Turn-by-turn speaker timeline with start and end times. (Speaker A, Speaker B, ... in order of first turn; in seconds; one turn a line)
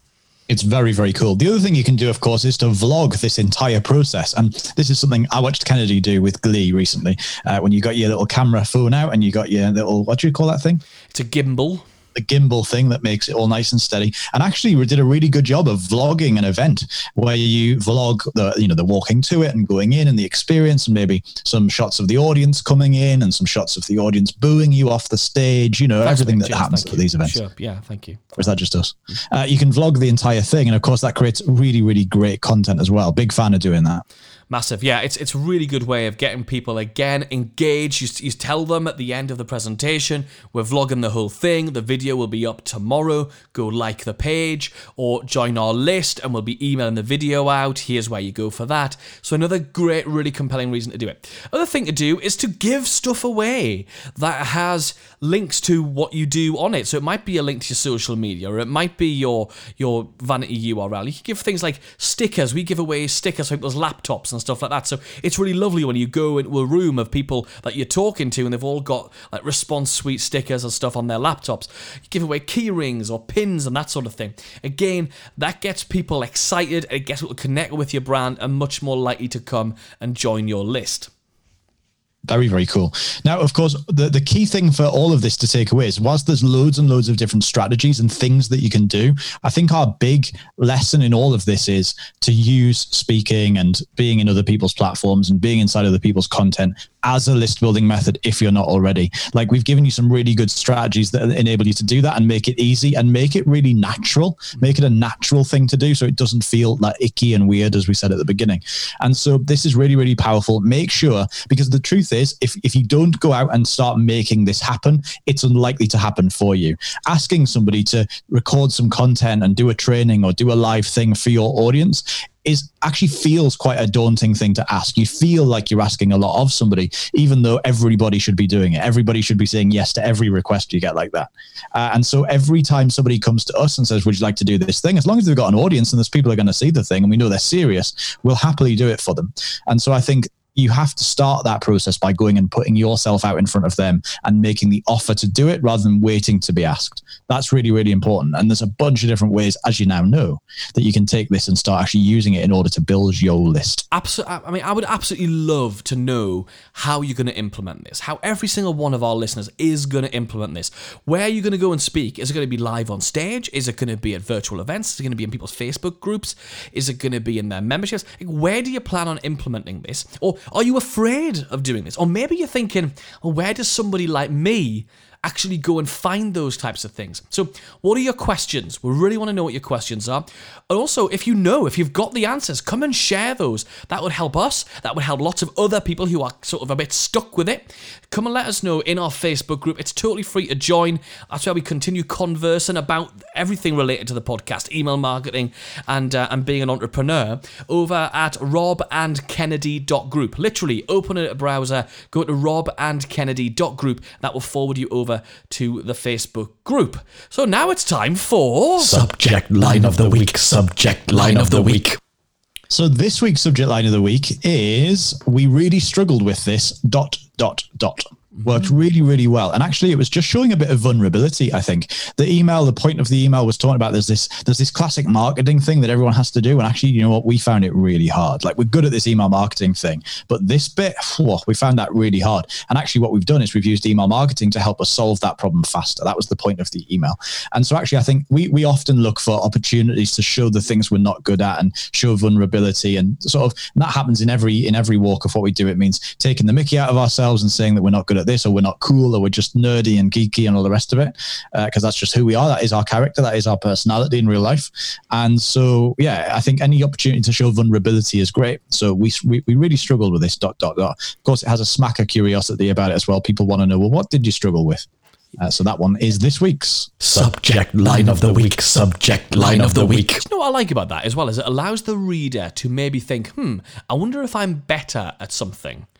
Speaker A: 0.5-10.8
Speaker B: 11.1-11.8
Speaker A: 12.2-27.3
Speaker B: 26.0-28.4
Speaker A: 28.4-34.0
Speaker B: 34.5-81.1
Speaker A: 82.3-153.8
Speaker B: 153.9-209.0
Speaker C: 208.8-212.0
Speaker B: 211.1-211.8
Speaker A: 212.7-266.9
Speaker B: 267.0-267.4
Speaker C: 267.0-270.2
Speaker B: 269.4-275.9